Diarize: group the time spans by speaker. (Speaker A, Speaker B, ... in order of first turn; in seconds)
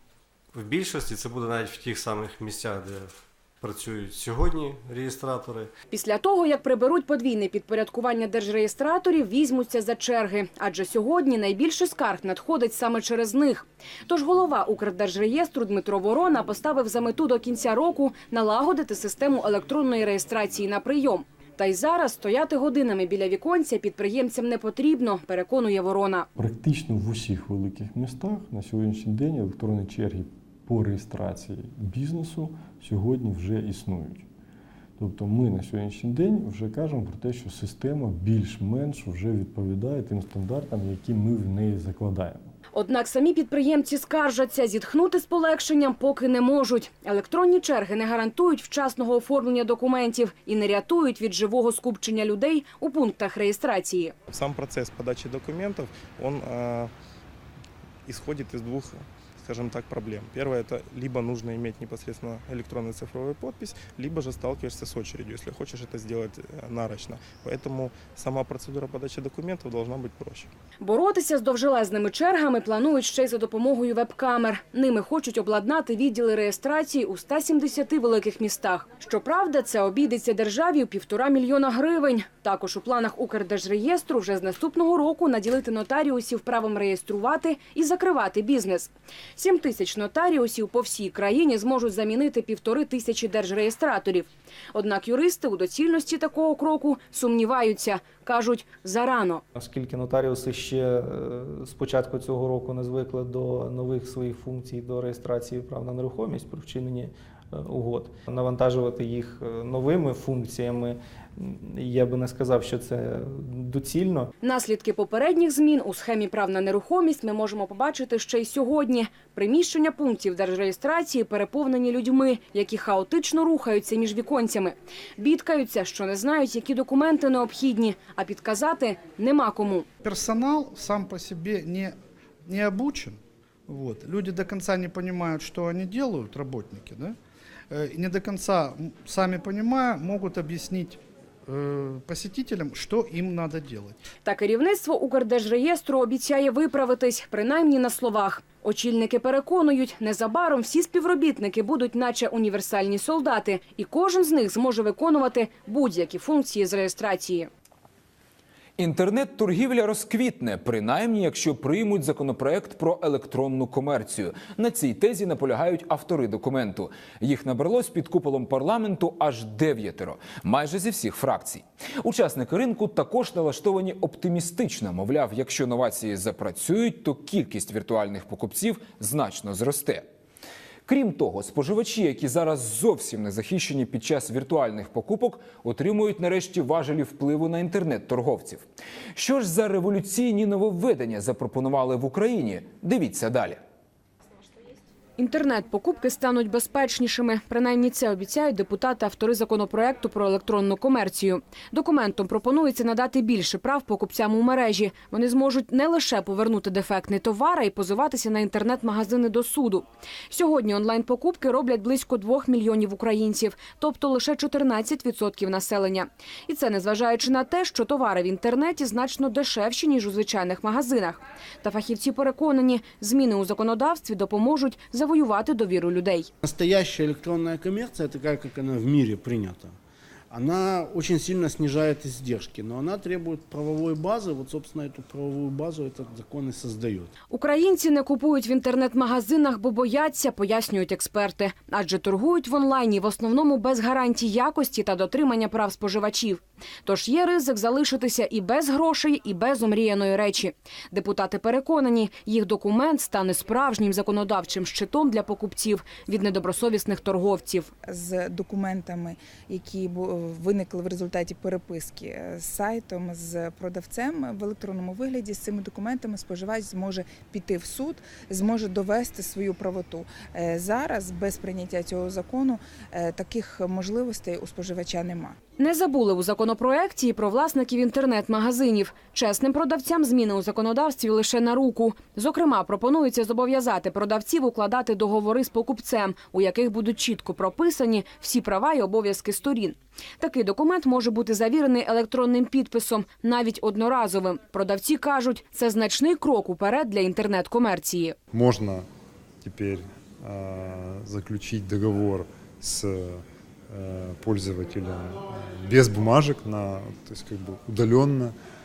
Speaker A: 0.5-5.7
Speaker B: 5.9-26.3, 42.7-54.1, 70.8-99.4, 114.4-129.9, 144.2-157.5, 195.2-226.3, 237.3-257.7, 275.6-298.2
Speaker C: 26.4-34.3, 35.0-42.5
Speaker D: 54.3-56.9, 58.0-70.5
Speaker E: 99.5-114.3
Speaker F: 130.0-131.9, 132.4-133.2, 133.7-137.1, 137.7-144.0
Speaker G: 158.8-180.1, 180.9-193.6
Speaker H: 226.4-229.8, 230.3-237.1
Speaker I: 257.8-275.4
Speaker J: 298.3-298.9, 299.4-308.3